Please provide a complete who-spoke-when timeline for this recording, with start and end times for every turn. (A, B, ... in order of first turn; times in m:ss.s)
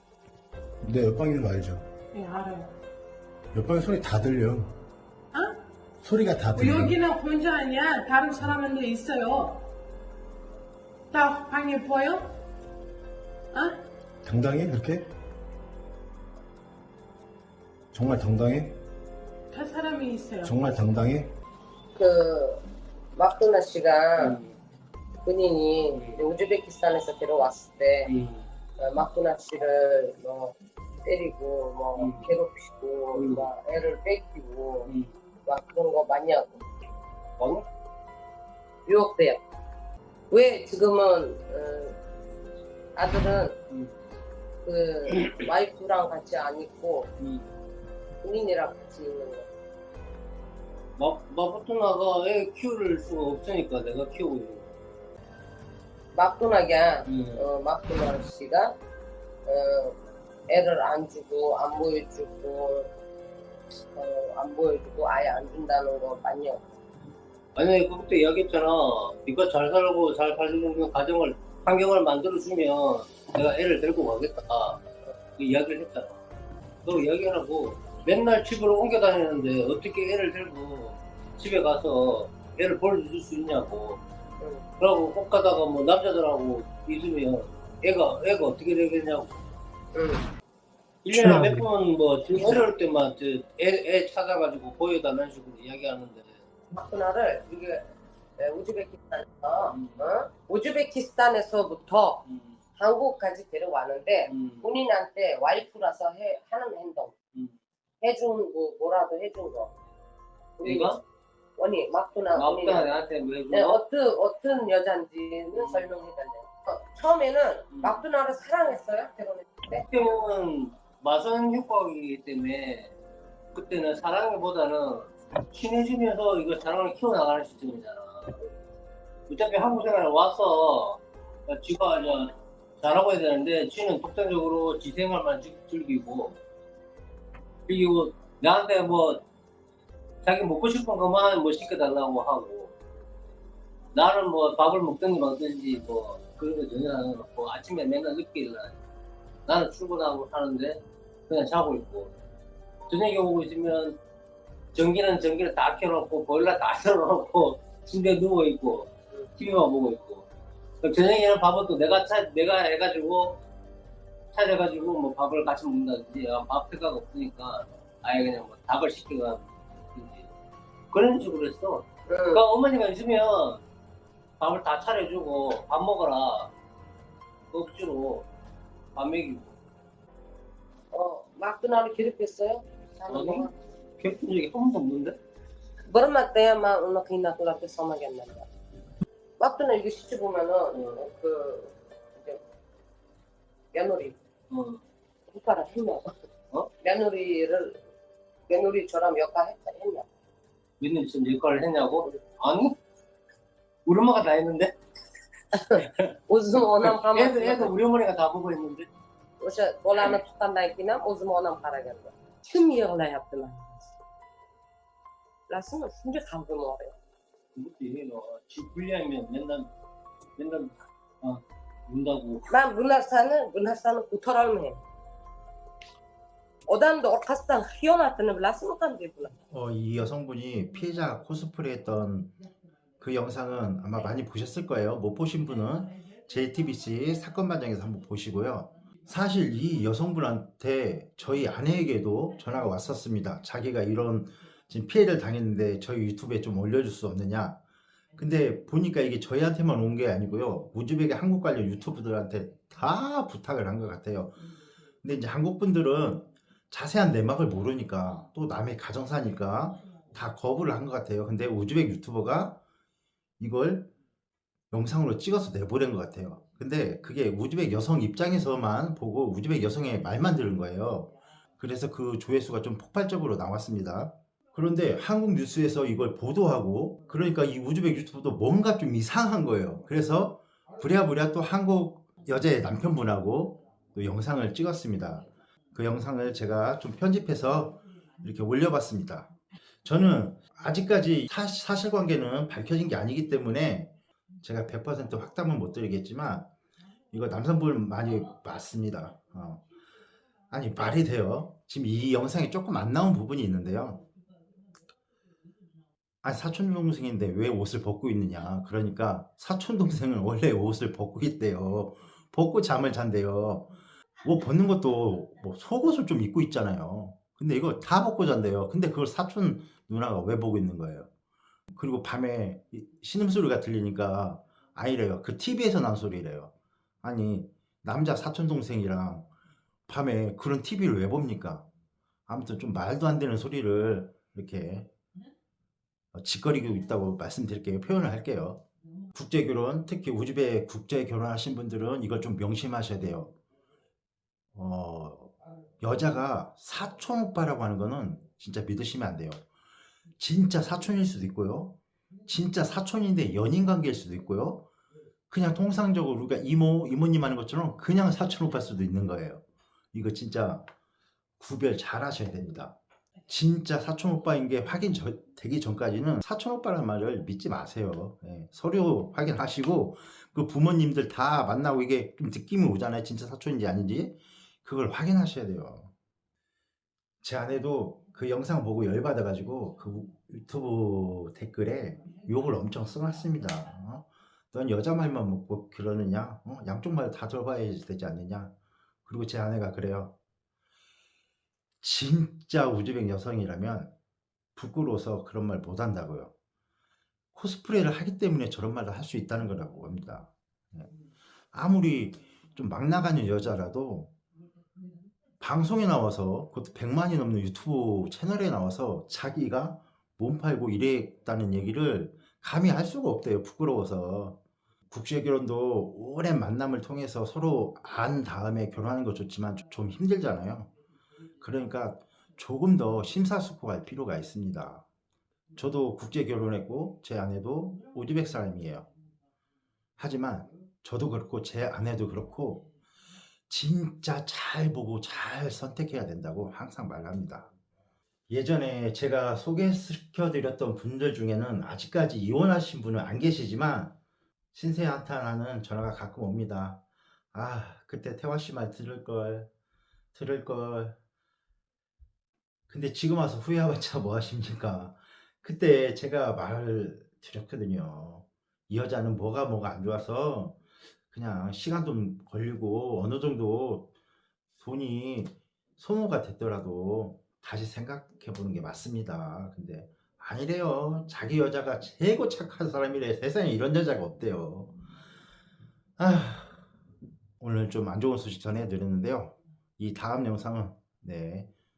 0:00.8-0:01.9 A
0:02.1-0:02.7 B
0:03.5-0:04.8 A
0:05.3-0:05.6 B
0:06.0-0:07.0 A
0:06.6-0:09.7 B
0:11.1-0:12.4 B
0:13.5-0:13.8 B
0:14.2-0:15.1 A
0:17.9-0:18.8 A
0:19.5-0:20.6 B
0:20.4-0:21.3 A
0:21.9-0:22.6 C
0:23.2-0:24.4 C
0:24.2-0:24.5 D
0:25.2-0:28.1 C
0:25.9-0:26.2 D
0:28.1-0:28.4 D
0:28.8-0:34.9 C
0:32.0-0:32.3 D
0:33.1-0:33.4 D
0:35.5-0:36.6 C
0:37.4-0:37.6 D
0:38.9-0:39.4 C
0:40.3-0:42.0 C
0:43.0-0:43.6 C
0:43.7-0:44.0 D
0:44.6-0:47.1 C
0:47.2-0:47.5 D
0:48.2-0:49.5 C
0:51.0-0:54.7 D
0:56.1-0:58.7 C
0:57.1-0:57.4 D
0:59.5-1:00.0 C
1:00.5-1:02.9 C
1:03.9-1:06.8 C
1:07.6-1:14.8 D
1:15.4-1:16.2 D
1:16.8-1:24.0 D
1:24.8-1:29.3 D
1:29.9-1:30.2 C
1:31.0-1:36.3 D
1:32.4-1:32.6 C
1:36.7-1:37.9 C
1:38.4-1:42.2 C
1:39.7-1:40.0 D
1:42.3-1:42.6 D
1:42.8-1:47.1 C
1:44.3-1:44.7 D
1:48.0-1:49.7 C
1:50.6-1:51.0 C
1:50.6-1:51.0 D
1:51.6-1:52.9 C
1:52.4-1:53.8 D
1:53.5-1:59.9 C
1:55.5-1:55.8 D
1:57.7-1:58.0 D
1:59.8-2:02.9 D
2:03.5-2:08.4 D
2:09.3-2:16.4 D
2:17.7-2:19.2 D
2:20.2-2:22.7 D
2:23.9-2:28.8 D
2:29.5-2:32.1 D
2:32.9-2:34.0 D
2:34.7-2:40.3 D
2:40.8-2:43.4 D
2:44.3-2:50.3 D
2:50.9-2:53.6 D
2:52.1-2:52.4 C
2:54.4-2:56.5 D
2:57.5-2:58.3 D
2:59.0-2:59.6 D
3:00.9-3:03.5 C
3:03.1-3:03.5 D
3:04.0-3:05.2 D
3:05.9-3:08.5 C
3:09.4-3:12.4 C
3:10.7-3:11.0 D
3:13.7-3:14.2 C
3:14.5-3:14.8 D
3:15.3-3:16.1 C
3:16.8-3:17.8 C
3:18.5-3:20.1 C
3:20.8-3:22.8 D
3:23.9-3:24.7 D
3:25.6-3:27.7 C
3:26.8-3:28.9 D
3:29.4-3:34.0 C
3:35.5-3:37.0 C
3:37.6-3:39.7 D
3:40.4-3:42.5 D
3:42.5-3:44.8 C
3:46.7-3:49.4 C
3:49.5-3:52.3 E
3:53.0-4:07.6 E
4:08.2-4:14.4 E
4:15.0-4:22.6 E
4:23.4-4:23.9 E
4:24.7-4:49.3 E
4:49.8-4:56.5 E
4:57.1-4:59.6 E
5:00.5-5:04.0 E
5:06.2-5:13.7 E
5:14.2-5:21.1 E
5:21.7-5:26.5 E
5:27.0-5:29.3 E
5:29.9-5:31.7 E
5:32.3-5:34.9 E
5:36.2-5:38.6 E
5:39.1-5:43.3 E
5:44.6-5:49.4 E
5:50.2-5:54.7 E
5:55.3-5:59.4 E
5:59.9-6:00.7 E
6:01.4-6:02.8 E
6:03.3-6:15.9 E
6:17.2-6:28.5 E
6:29.1-6:30.1 E
6:31.8-6:33.9 E
6:34.6-6:36.3 E
6:37.4-6:40.9 E
6:41.5-6:44.1 E
6:45.4-6:54.4 E
6:54.9-7:00.7 E
7:01.4-7:04.8 E
7:05.6-7:08.9 E
7:10.0-7:12.6 E
7:13.5-7:17.5 E
7:18.3-7:24.0 E
7:24.5-7:26.8 E
7:27.3-7:29.5 E
7:30.1-7:31.0 E
7:32.7-7:40.6 E
7:41.1-7:43.9 E
7:44.6-7:54.8 E
7:56.0-7:56.6 E
7:57.4-8:01.5 E